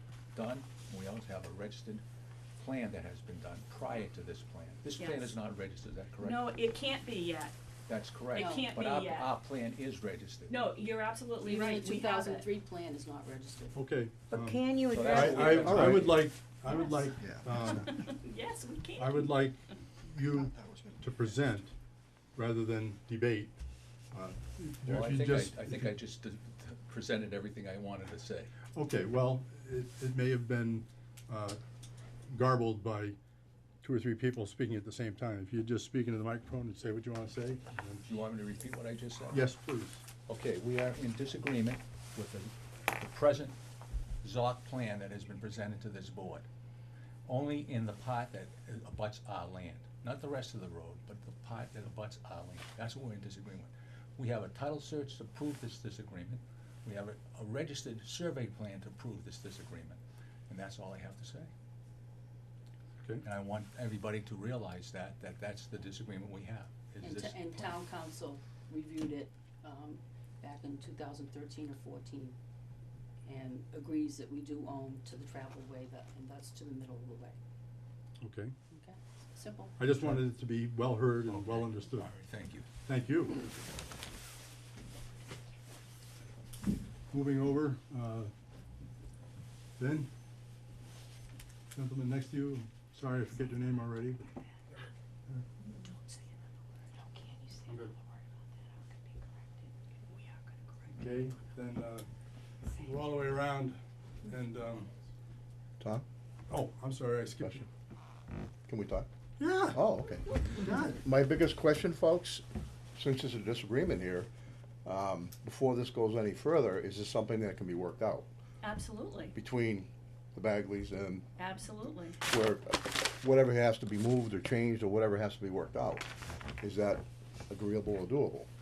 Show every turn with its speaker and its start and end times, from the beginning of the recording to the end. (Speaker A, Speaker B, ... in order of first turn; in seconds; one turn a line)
Speaker A: 0.3-2.0
Speaker A: 2.6-6.4
Speaker B: 5.0-5.3
Speaker B: 6.2-7.5
Speaker A: 7.9-10.6
Speaker B: 8.3-9.3
Speaker C: 8.4-8.8
Speaker B: 10.5-12.5
Speaker C: 11.4-13.9
Speaker D: 13.8-17.9
Speaker B: 14.3-15.9
Speaker A: 14.9-16.3
Speaker B: 16.6-19.4
Speaker E: 17.2-17.7
Speaker D: 19.0-21.7
Speaker E: 20.3-21.0
Speaker D: 22.4-23.6
Speaker D: 24.1-26.0
Speaker A: 24.9-28.5
Speaker D: 28.8-31.6
Speaker D: 32.3-33.2
Speaker D: 33.8-38.0
Speaker A: 38.0-39.5
Speaker D: 39.3-40.1
Speaker A: 40.3-43.6
Speaker A: 44.2-46.5
Speaker A: 47.3-61.5
Speaker A: 63.2-67.8
Speaker C: 67.0-72.4
Speaker C: 73.2-77.4
Speaker D: 78.2-78.5
Speaker C: 78.7-79.9
Speaker D: 79.8-82.1
Speaker A: 81.3-82.7
Speaker D: 82.8-83.5
Speaker D: 87.1-88.3
Speaker D: 89.8-90.1
Speaker D: 91.7-94.2
Speaker B: 95.7-100.9
Speaker D: 97.7-97.9
Speaker D: 100.9-102.1
Speaker D: 102.7-104.9
Speaker D: 106.5-107.7
Speaker E: 108.7-109.1
Speaker D: 109.4-109.8
Speaker E: 109.7-112.4
Speaker D: 110.5-111.0
Speaker E: 113.0-114.3
Speaker E: 114.8-118.3
Speaker B: 118.6-119.3
Speaker E: 119.3-121.3
Speaker B: 121.4-122.2
Speaker E: 122.2-128.5